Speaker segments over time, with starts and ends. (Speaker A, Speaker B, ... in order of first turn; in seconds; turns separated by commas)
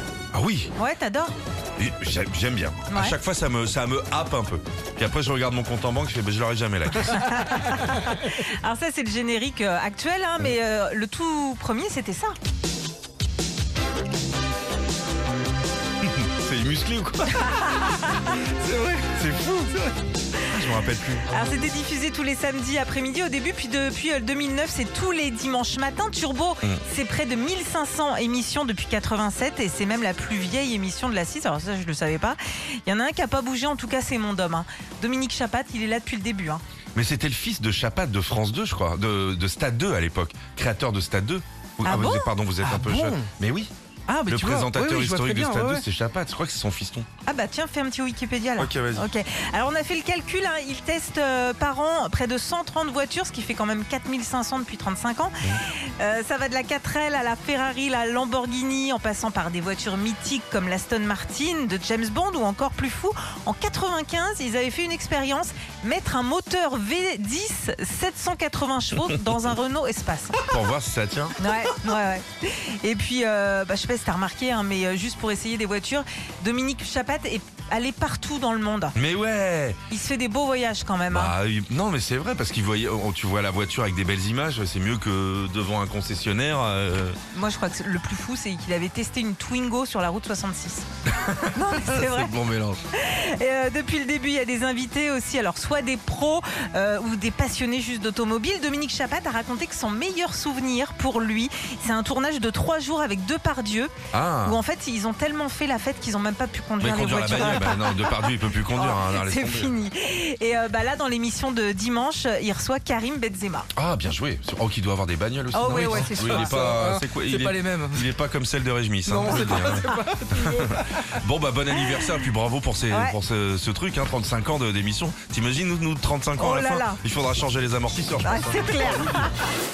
Speaker A: 0.3-0.7, Speaker B: 0.7-1.3, Speaker A: 1.8-7.8, Speaker B: 2.9-3.2, Speaker B: 7.2-12.3, Speaker A: 16.0-17.8, Speaker B: 17.9-18.2, Speaker C: 18.4-18.9, Speaker A: 18.8-21.3, Speaker B: 21.3-36.6, Speaker A: 36.9-43.7, Speaker B: 41.8-42.3, Speaker C: 42.6-43.3, Speaker C: 44.1-45.8, Speaker A: 44.3-47.1, Speaker B: 47.2-70.4, Speaker A: 48.6-49.0, Speaker A: 70.4-71.4, Speaker B: 71.4-79.0, Speaker A: 79.0-79.8, Speaker B: 79.9-81.3, Speaker A: 81.1-87.2, Speaker B: 87.3-90.8, Speaker A: 91.2-92.8, Speaker B: 91.5-92.3, Speaker B: 92.9-108.1, Speaker A: 104.1-104.6, Speaker A: 106.8-109.7, Speaker B: 108.7-113.7, Speaker A: 113.7-129.2, Speaker B: 115.5-116.7, Speaker C: 115.6-118.1, Speaker C: 119.0-121.2, Speaker B: 119.3-119.7, Speaker B: 121.8-122.1, Speaker B: 122.9-123.2, Speaker B: 126.4-127.0, Speaker B: 128.2-129.4